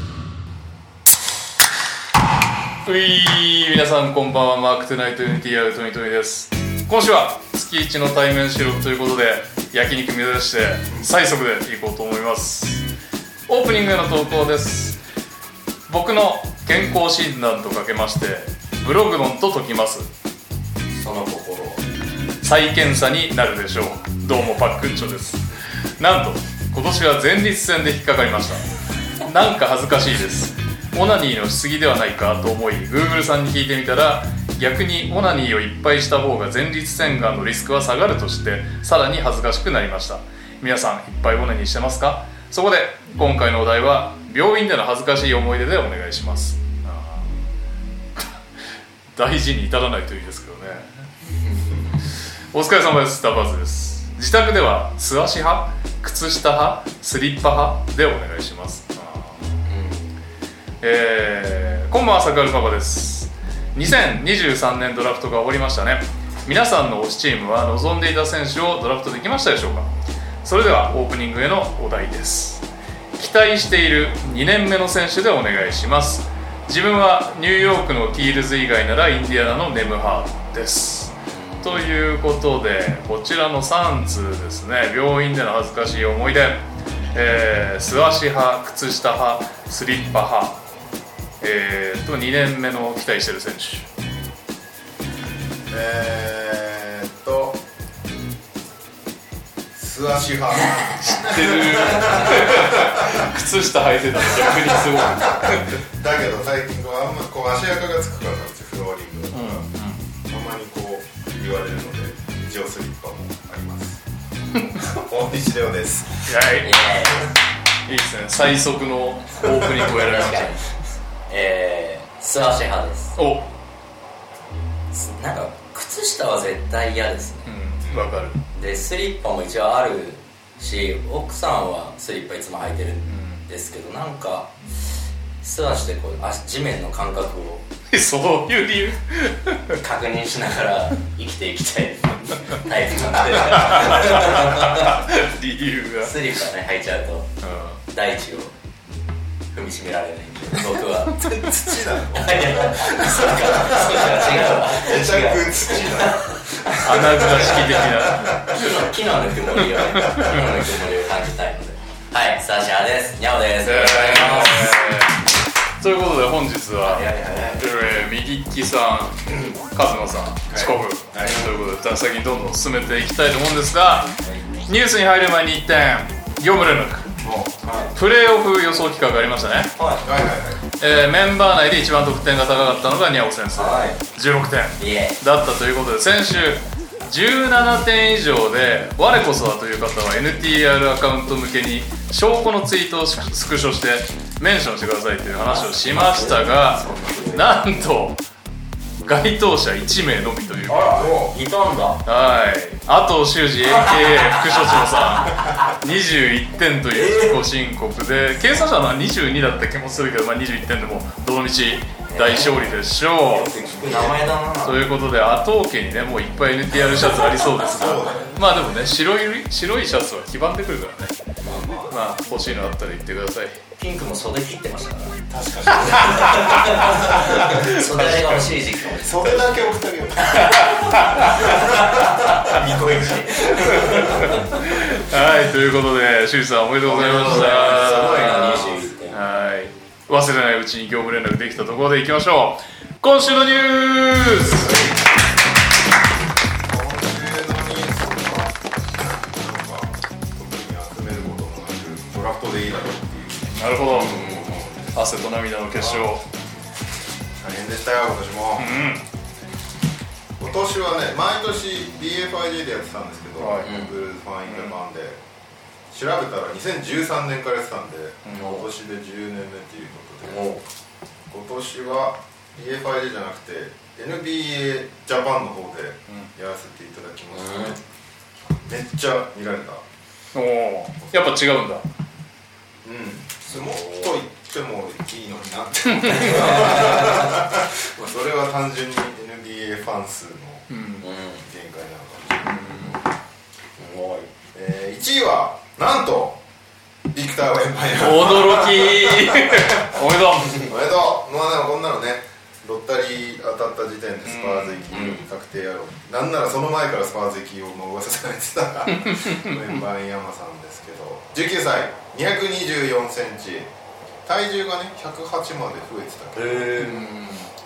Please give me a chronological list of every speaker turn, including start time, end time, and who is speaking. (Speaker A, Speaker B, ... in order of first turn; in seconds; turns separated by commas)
Speaker A: 2.9-12.9, Speaker A: 13.5-15.0, Speaker A: 15.9-20.1, Speaker B: 20.9-21.9, Speaker A: 22.4-25.4, Speaker A: 26.0-28.6, Speaker A: 29.2-47.4, Speaker A: 49.1-50.9, Speaker B: 51.4-52.0, Speaker A: 52.5-59.5, Speaker B: 59.7-60.1, Speaker A: 60.8-69.9, Speaker A: 70.4-72.7, Speaker A: 73.2-90.6, Speaker B: 81.3-81.7, Speaker A: 91.4-93.9, Speaker C: 95.7-97.6, Speaker C: 99.8-103.2, Speaker A: 101.1-105.7, Speaker C: 104.7-109.7, Speaker A: 109.3-110.0, Speaker C: 110.3-114.0, Speaker C: 114.7-116.4, Speaker A: 116.3-116.9, Speaker B: 116.6-117.3, Speaker A: 117.9-120.6, Speaker B: 119.5-120.6, Speaker B: 121.3-123.1, Speaker A: 123.2-123.5, Speaker B: 125.2-127.9, Speaker A: 127.5-128.4, Speaker B: 128.5-134.6, Speaker A: 133.1-133.4, Speaker B: 135.4-137.7, Speaker A: 137.9-139.8, Speaker B: 139.8-145.0, Speaker A: 143.4-146.2, Speaker B: 146.0-147.3, Speaker A: 147.4-147.8, Speaker B: 147.9-148.5, Speaker B: 149.5-151.3, Speaker C: 151.1-158.6, Speaker B: 152.1-157.5, Speaker A: 156.8-158.7, Speaker B: 158.5-164.8, Speaker C: 159.9-160.4, Speaker A: 160.1-160.4, Speaker A: 163.6-165.2, Speaker A: 165.8-167.1, Speaker B: 166.8-167.6, Speaker A: 167.6-177.1, Speaker C: 170.5-171.5, Speaker C: 177.2-177.6, Speaker B: 177.6-177.9, Speaker A: 177.9-179.7, Speaker B: 179.8-180.1, Speaker C: 180.0-180.6, Speaker A: 180.8-198.2, Speaker B: 183.5-184.0, Speaker B: 184.8-185.2, Speaker B: 195.4-197.5, Speaker A: 199.0-201.2, Speaker B: 200.7-202.0, Speaker C: 201.0-201.3, Speaker A: 202.1-221.1, Speaker B: 203.7-205.7, Speaker B: 206.9-207.4, Speaker B: 212.1-212.7, Speaker B: 213.3-214.9, Speaker C: 217.7-218.4, Speaker B: 221.4-221.7, Speaker C: 221.4-222.0, Speaker A: 221.9-223.6, Speaker B: 223.8-225.2, Speaker C: 225.3-228.1, Speaker B: 225.9-229.7, Speaker A: 227.9-228.5, Speaker C: 228.9-230.8, Speaker B: 230.2-234.5, Speaker C: 231.4-232.1, Speaker A: 234.2-244.9, Speaker B: 236.8-239.2, Speaker C: 237.3-238.9, Speaker C: 244.5-245.1, Speaker C: 246.7-255.0, Speaker A: 253.6-256.2, Speaker B: 253.9-254.6, Speaker C: 255.7-256.2, Speaker C: 257.4-258.9, Speaker A: 258.6-259.1, Speaker C: 260.4-265.2, Speaker A: 263.4-263.7, Speaker B: 263.6-263.9, Speaker A: 264.5-264.8, Speaker C: 265.9-270.5, Speaker A: 268.2-268.6, Speaker B: 268.3-268.7, Speaker B: 270.3-270.6, Speaker C: 271.3-277.9, Speaker B: 277.3-277.8, Speaker C: 278.4-279.8, Speaker A: 280.3-281.9, Speaker C: 281.0-281.4, Speaker C: 282.8-290.7, Speaker A: 286.0-286.5, Speaker B: 286.3-287.4, Speaker A: 290.7-291.1, Speaker B: 291.0-291.4, Speaker C: 291.4-292.9, Speaker A: 292.5-293.0, Speaker B: 293.8-294.3, Speaker C: 294.5-296.4, Speaker C: 297.1-300.0, Speaker A: 298.0-300.7, Speaker C: 300.6-313.7, Speaker A: 304.2-305.2, Speaker B: 304.9-305.2, Speaker A: 309.0-309.5, Speaker C: 314.2-317.1, Speaker B: 316.3-317.2, Speaker A: 316.8-317.5